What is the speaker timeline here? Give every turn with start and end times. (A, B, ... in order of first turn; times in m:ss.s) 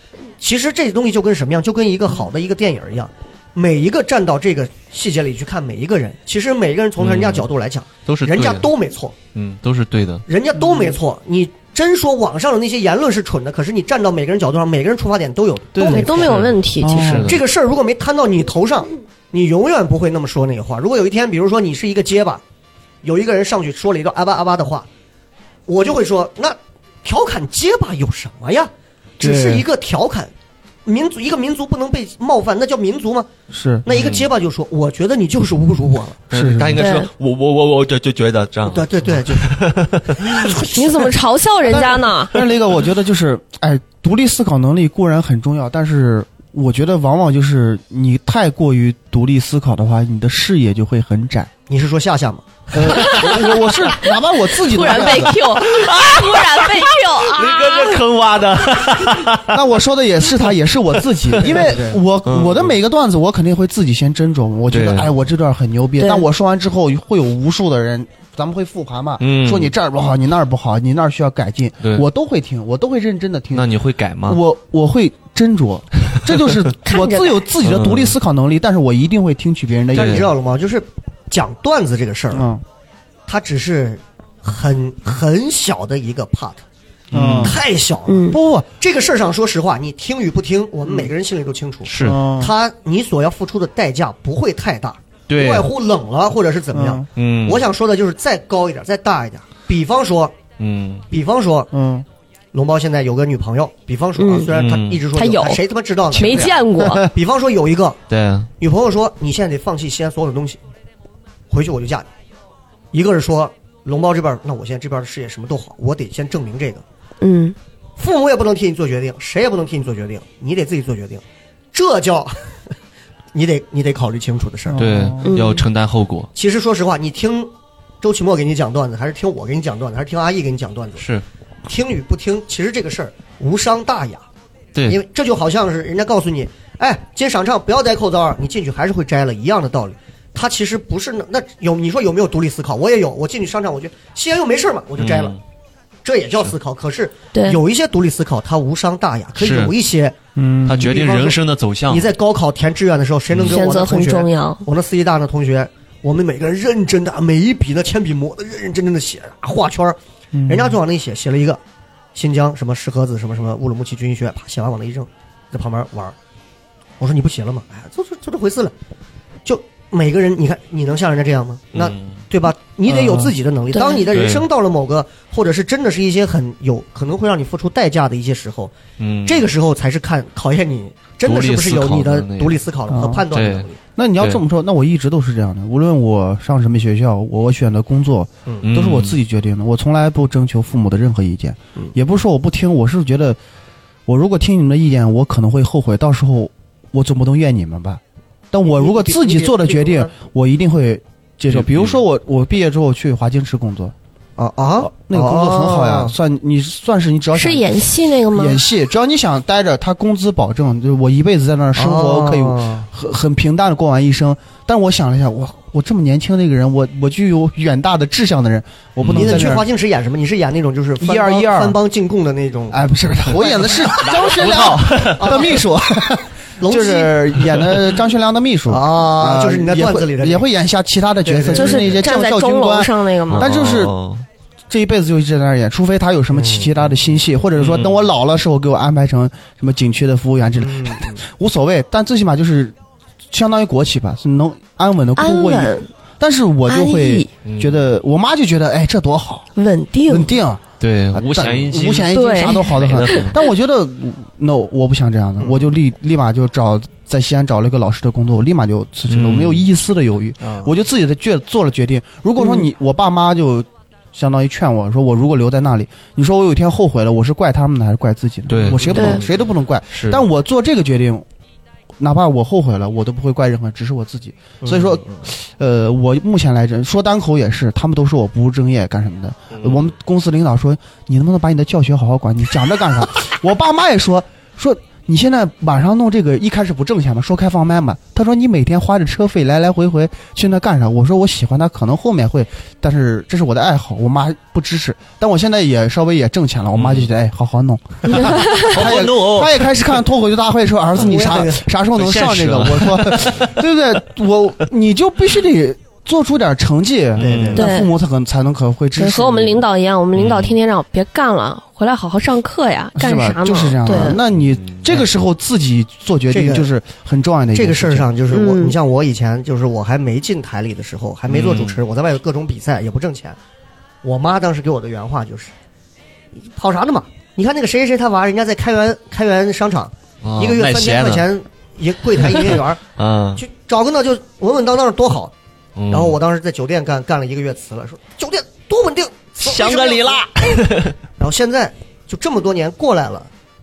0:00.4-0:09.2 A
0:07.0-0:07.5 B
0:08.0-0:08.7 B
0:09.3-0:10.2 B
0:10.3-0:16.4 A
0:15.8-0:16.1 C
0:15.8-0:17.2 D
0:16.0-0:17.4 B
0:16.8-0:17.3 C
0:17.2-0:22.4 A
0:23.0-0:24.9 A
0:25.7-0:30.3 A
0:29.2-0:29.6 C
0:30.8-0:33.3 A
0:33.5-0:33.8 C
0:33.8-0:36.2 A
0:33.9-0:34.3 B
0:36.3-0:40.6 B
0:36.3-0:36.9 C
0:36.8-0:37.1 D
0:38.6-0:41.1 A
0:40.7-0:42.3 D
0:41.7-0:51.5 C
0:51.7-0:53.4 A
0:52.7-0:55.4 C
0:53.0-0:53.4 D
0:54.0-0:58.0 D
0:55.1-0:59.6 B
0:59.5-1:13.7 C
1:01.0-1:02.7 B
1:01.4-1:02.0 A
1:04.7-1:05.1 B
1:06.0-1:06.2 D
1:09.2-1:09.7 B
1:13.5-1:14.4 B
1:14.3-1:20.3 C
1:16.8-1:17.4 D
1:17.6-1:18.1 B
1:19.9-1:22.4 A
1:19.9-1:20.3 B
1:22.3-1:22.6 C
1:23.3-1:26.6 A
1:27.1-1:27.6 B
1:27.1-1:27.6 C
1:27.4-1:40.4 A
1:28.1-1:28.4 D
1:28.3-1:28.7 C
1:31.8-1:32.2 B
1:32.0-1:32.5 C
1:35.3-1:35.7 B
1:36.7-1:37.0 C
1:37.2-1:37.7 B
1:40.6-1:41.0 B
1:41.1-1:41.7 A
1:41.7-1:42.0 C
1:42.5-1:48.0 A
1:44.2-1:44.5 D
1:44.5-1:45.0 B
1:45.1-1:45.6 D
1:46.1-1:47.0 D
1:46.8-1:47.1 C
1:48.1-1:48.5 B
1:48.6-1:50.6 A
1:51.5-1:52.1 A
1:52.9-1:56.8 A
1:57.2-1:57.5 D
1:58.0-2:02.5 A
2:03.3-2:04.8 A
2:04.7-2:05.3 C
2:04.8-2:06.3 B
2:05.2-2:05.6 D
2:06.3-2:11.0 A
2:11.0-2:11.2 B
2:11.6-2:14.2 A
2:14.7-2:15.0 B
2:14.9-2:25.3 A
2:25.0-2:25.4 B
2:26.0-2:30.2 A
2:27.3-2:27.6 D
2:29.4-2:29.7 B
2:30.4-2:30.9 C
2:30.6-2:32.1 B
2:30.8-2:41.6 A
2:33.3-2:33.6 B
2:33.4-2:34.6 D
2:40.3-2:40.8 C
2:42.1-2:46.1 A
2:47.0-2:48.7 A
2:49.4-2:58.7 A
2:51.7-2:52.2 B
2:52.9-2:53.3 C
2:53.7-2:54.0 D
2:54.1-2:54.4 B
2:59.0-2:59.5 B
2:59.2-3:03.8 A
3:01.2-3:02.6 B
3:02.9-3:03.2 C
3:03.3-3:03.7 B
3:04.0-3:13.4 C
3:08.6-3:09.2 B
3:14.1-3:18.0 C
3:18.5-3:23.9 C
3:18.7-3:20.1 A
3:21.5-3:22.0 B
3:24.4-3:26.1 A
3:24.8-3:27.8 C
3:27.3-3:28.6 D
3:28.3-3:39.6 C
3:31.8-3:32.9 A
3:39.0-3:39.5 B
3:39.1-3:45.6 A
3:41.0-3:41.8 C
3:42.7-3:53.9 C
3:44.0-3:45.5 B
3:46.6-3:47.7 A
3:48.7-3:50.5 A
3:51.2-3:52.0 A
3:51.5-3:53.5 D
3:53.3-3:54.2 B
3:54.7-4:02.7 C
3:56.3-3:56.7 A
3:57.6-3:58.1 B
4:00.6-4:01.2 A
4:03.3-4:09.5 C
4:05.2-4:05.9 D
4:06.7-4:07.3 D
4:07.4-4:07.8 B
4:09.6-4:10.3 D
4:10.1-4:31.2 C
4:10.8-4:13.4 B
4:12.1-4:13.2 D
4:15.4-4:15.6 A
4:19.1-4:19.6 B
4:20.4-4:20.7 A
4:22.4-4:22.6 D
4:28.5-4:29.3 B
4:28.6-4:29.4 A
4:28.9-4:29.2 D
4:29.9-4:30.2 B
4:32.0-5:09.6 C
4:34.6-4:35.2 A
4:39.5-4:39.9 B
4:56.7-4:57.1 B
4:58.1-4:58.7 D
4:58.6-4:59.7 B
5:01.0-5:01.6 A
5:01.9-5:03.6 B
5:07.2-5:07.6 B
5:07.2-5:07.7 A
5:07.6-5:07.9 D
5:09.0-5:14.2 D
5:10.2-5:10.6 B
5:12.9-5:18.1 C
5:14.3-5:15.1 B
5:16.3-5:16.7 A
5:17.5-5:23.4 A
5:18.3-5:18.8 D
5:21.3-5:21.8 B
5:24.0-5:25.5 A
5:26.5-5:32.8 A
5:30.2-5:31.3 B
5:32.2-5:33.4 B
5:33.4-5:35.3 A
5:35.8-5:36.2 B
5:35.9-5:40.6 A
5:39.4-5:40.9 B
5:41.2-5:43.3 A